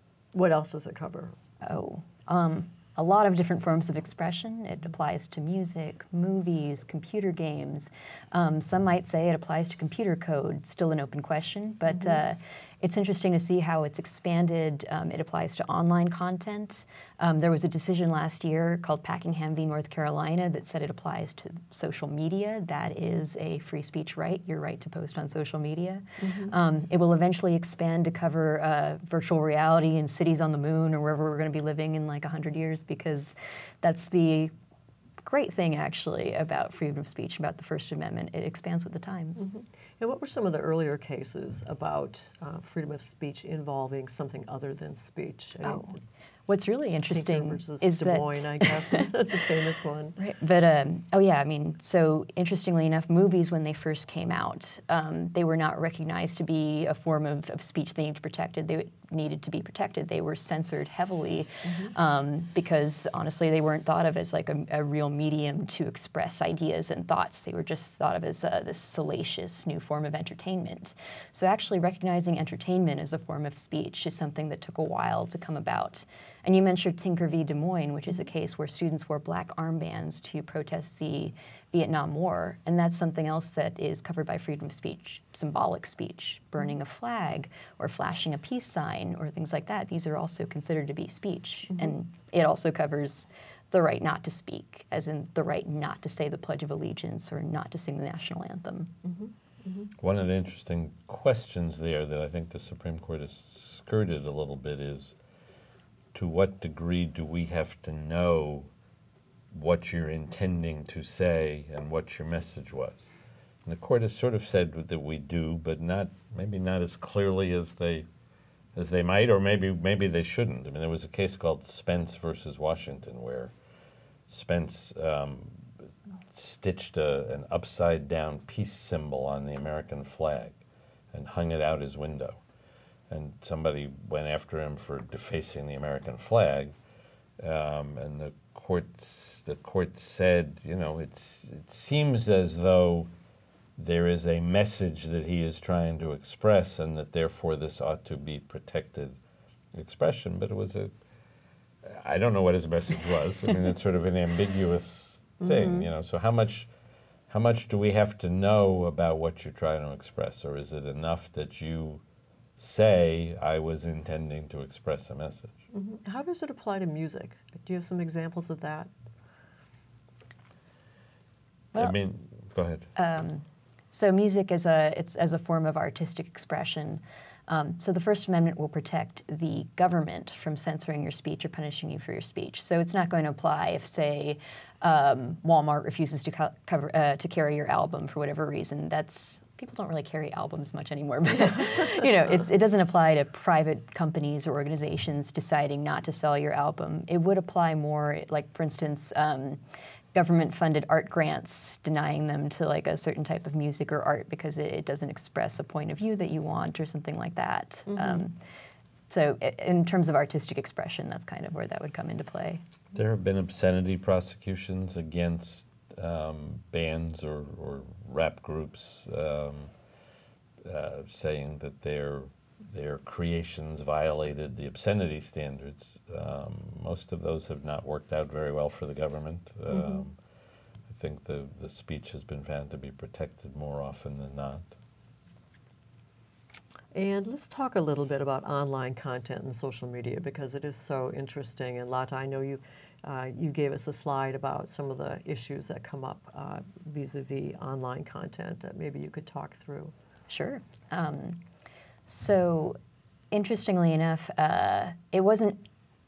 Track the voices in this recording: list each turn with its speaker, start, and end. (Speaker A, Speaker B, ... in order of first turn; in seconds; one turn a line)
Speaker A: 0.3-1.3
Speaker B: 1.6-34.5
Speaker A: 26.2-26.5
Speaker B: 35.2-39.5
Speaker A: 39.4-45.9
Speaker B: 45.6-46.0
Speaker B: 46.5-49.1
Speaker A: 47.1-50.2
Speaker B: 50.2-98.9
Speaker A: 61.6-61.9
Speaker A: 99.0-99.9
Speaker C: 100.0-105.1
Speaker C: 106.1-108.7
Speaker C: 109.5-113.1
Speaker C: 113.7-118.0
Speaker C: 118.7-123.5
Speaker C: 124.3-125.7
Speaker C: 126.3-130.6
Speaker C: 131.1-132.4
Speaker C: 133.1-136.7
Speaker C: 137.4-143.1
Speaker C: 143.8-149.2
Speaker C: 149.7-150.9
Speaker C: 151.8-156.7
Speaker A: 155.4-155.9
Speaker C: 157.3-162.0
Speaker C: 162.6-165.6
Speaker A: 165.7-168.9
Speaker C: 171.8-172.9
Speaker B: 172.9-199.6
Speaker B: 200.1-208.4
Speaker A: 207.9-208.2
Speaker B: 209.1-212.6
Speaker C: 212.9-219.7
Speaker C: 220.6-230.2
Speaker A: 229.7-230.0
Speaker C: 230.9-234.7
Speaker A: 236.9-249.9
Speaker B: 250.3-251.4
Speaker B: 252.1-252.8
Speaker B: 253.3-255.7